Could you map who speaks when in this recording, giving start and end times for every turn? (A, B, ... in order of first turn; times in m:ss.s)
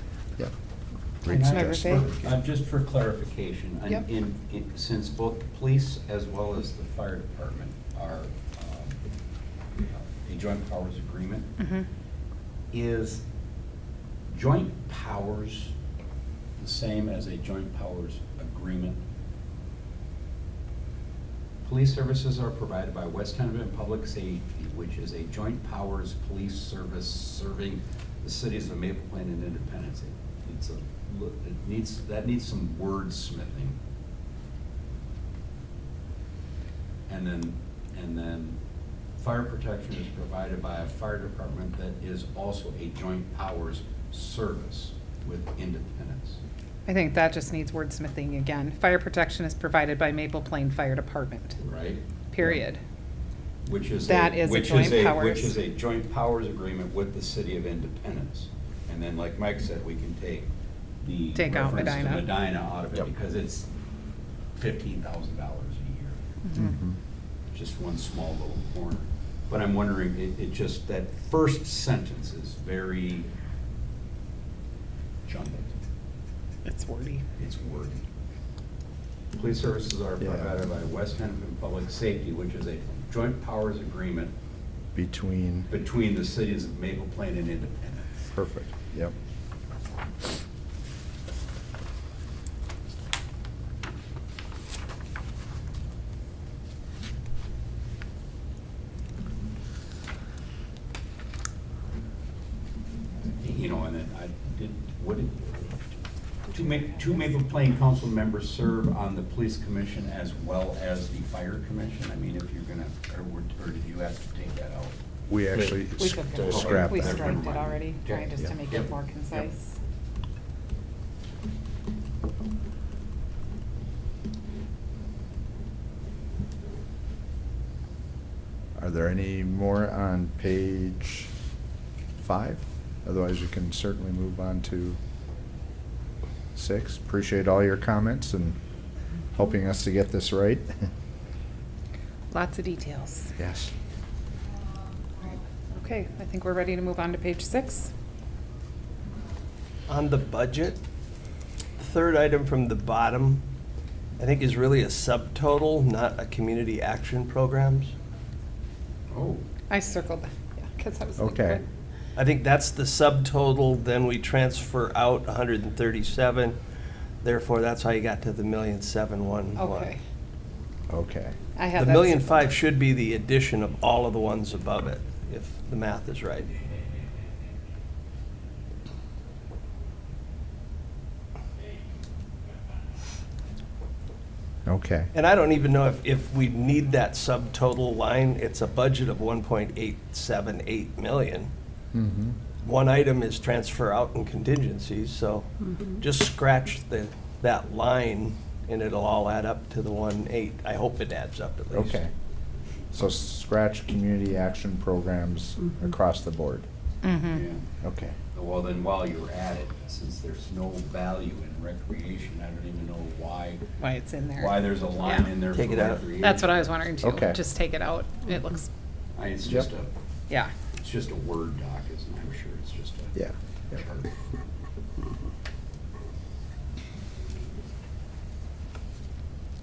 0:01.2-0:02.1 A
0:01.3-0:09.0 B
0:01.5-0:02.1 C
0:09.9-0:11.6 B
0:11.6-0:11.8 C
0:12.7-0:13.2 B
0:14.3-0:15.7 B
0:16.6-0:19.0 B
0:21.6-0:33.8 B
0:37.1-0:38.6 B
0:39.2-0:46.4 B
0:46.9-0:51.6 C
0:51.6-0:52.0 B
0:52.3-0:52.8 C
0:53.7-1:00.5 B
0:54.1-0:55.6 C
1:01.0-1:03.7 B
1:01.4-1:02.3 C
1:04.6-1:06.2 B
1:06.4-1:06.7 C
1:06.6-1:07.0 A
1:07.5-1:13.3 B
1:15.2-1:15.7 B
1:16.7-1:17.2 C
1:17.4-1:18.0 B
1:19.3-1:24.3 B
1:20.2-1:20.5 A
1:25.0-1:25.7 A
1:25.7-1:28.3 B
1:28.3-1:29.2 A
1:43.4-1:45.8 B
1:46.5-1:55.0 B
1:55.3-1:57.3 A
1:56.0-1:59.8 C
1:56.4-1:59.5 B
2:08.8-2:11.3 A
2:12.2-2:15.0 A
2:16.6-2:18.6 A
2:19.3-2:20.9 A
2:22.3-2:23.3 C
2:23.4-2:23.7 A
2:25.7-2:27.9 C
2:29.9-2:30.8 D
2:31.8-2:33.4 D
2:34.2-2:37.9 D
2:39.1-2:39.4 B
2:39.7-2:41.6 C
2:41.2-2:41.6 A
2:42.2-2:46.6 D
2:47.2-2:50.0 D
2:49.6-2:50.0 C
2:50.9-2:51.4 A
2:51.6-2:52.5 C
2:51.8-2:56.5 D
3:04.7-3:05.1 A
3:05.1-3:11.5 D
3:11.9-3:12.4 A
3:12.6-3:22.0 D
3:21.7-3:22.1 A
3:22.9-3:26.7 A
3:27.0-3:27.4 C
3:27.3-3:27.7 B
3:27.8-3:28.2 A
3:28.3-3:33.6 B
3:33.8-3:35.3 C
3:34.4-3:36.7 B
3:35.5-3:36.1 D
3:36.2-3:38.7 C
3:37.0-3:37.4 A
3:39.2-3:39.9 B
3:40.8-3:43.2 B
3:43.7-3:44.1 B